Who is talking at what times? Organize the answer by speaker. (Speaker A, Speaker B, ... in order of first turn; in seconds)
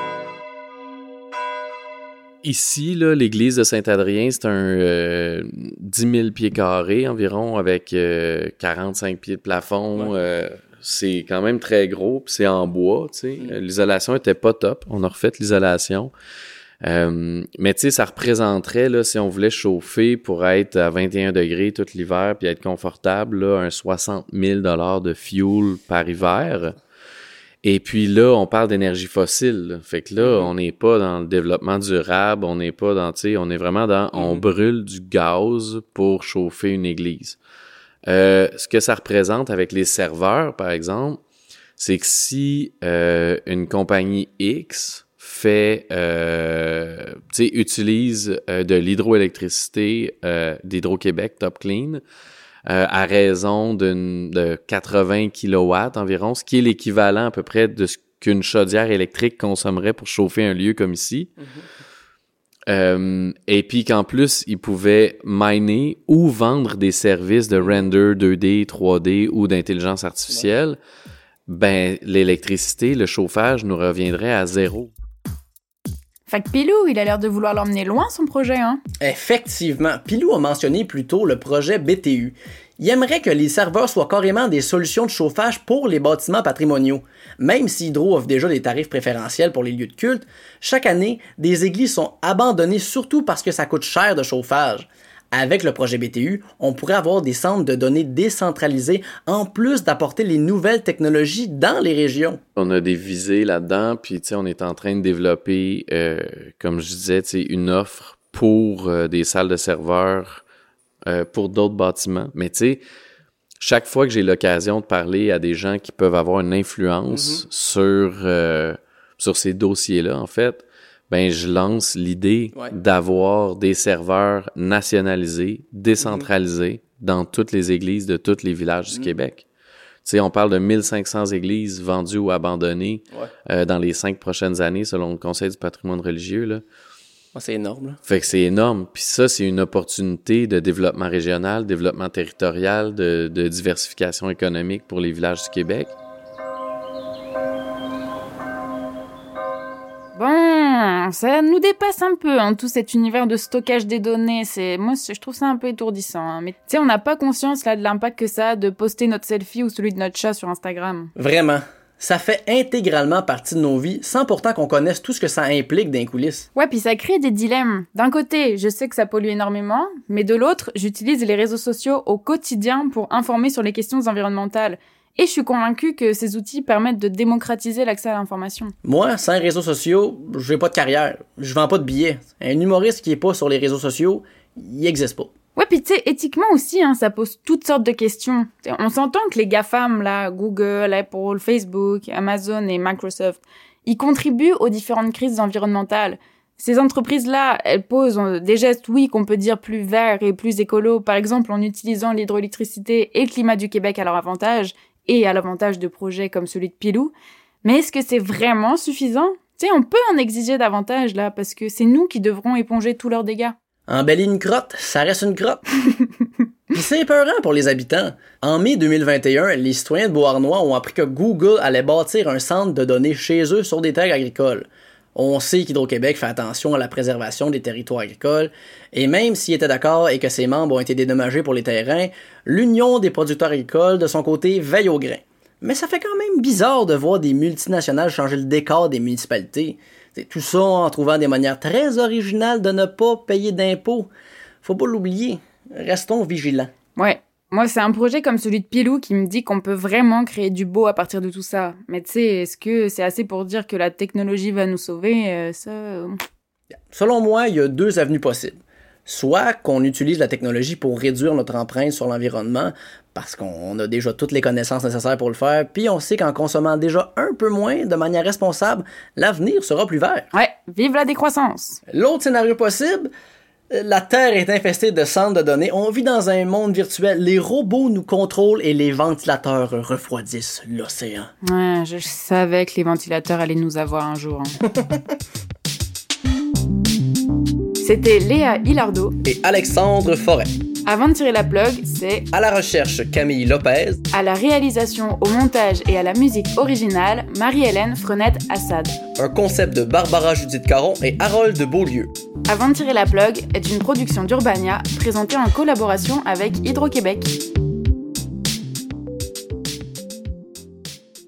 Speaker A: 2.4-16.1, 16.8-26.7, 27.6-37.4, 38.0-41.2, 41.8-52.0, 52.7-61.3, 62.7-70.8, 71.5-74.9, 102.5-110.4, 111.0-112.8, 113.6-129.4, 130.0-136.6, 138.1-145.9
Speaker B: 30.2-30.5, 34.1-34.5, 67.6-67.8, 79.0-102.4, 117.1-117.4, 126.0-126.3, 137.3-138.0, 161.2-166.5, 178.8-185.3, 213.9-215.6, 216.7-244.1, 244.6-246.7, 256.9-270.2, 271.9-273.1, 273.7-281.3, 289.2-290.5, 292.3-294.0, 299.2-302.1
Speaker C: 76.3-78.8, 150.1-161.1, 166.5-178.7, 185.5-207.1, 207.6-213.5, 246.9-256.1, 270.3-271.8, 281.4-284.6, 287.8-289.1, 290.8-292.3, 294.1-299.0, 302.5-307.3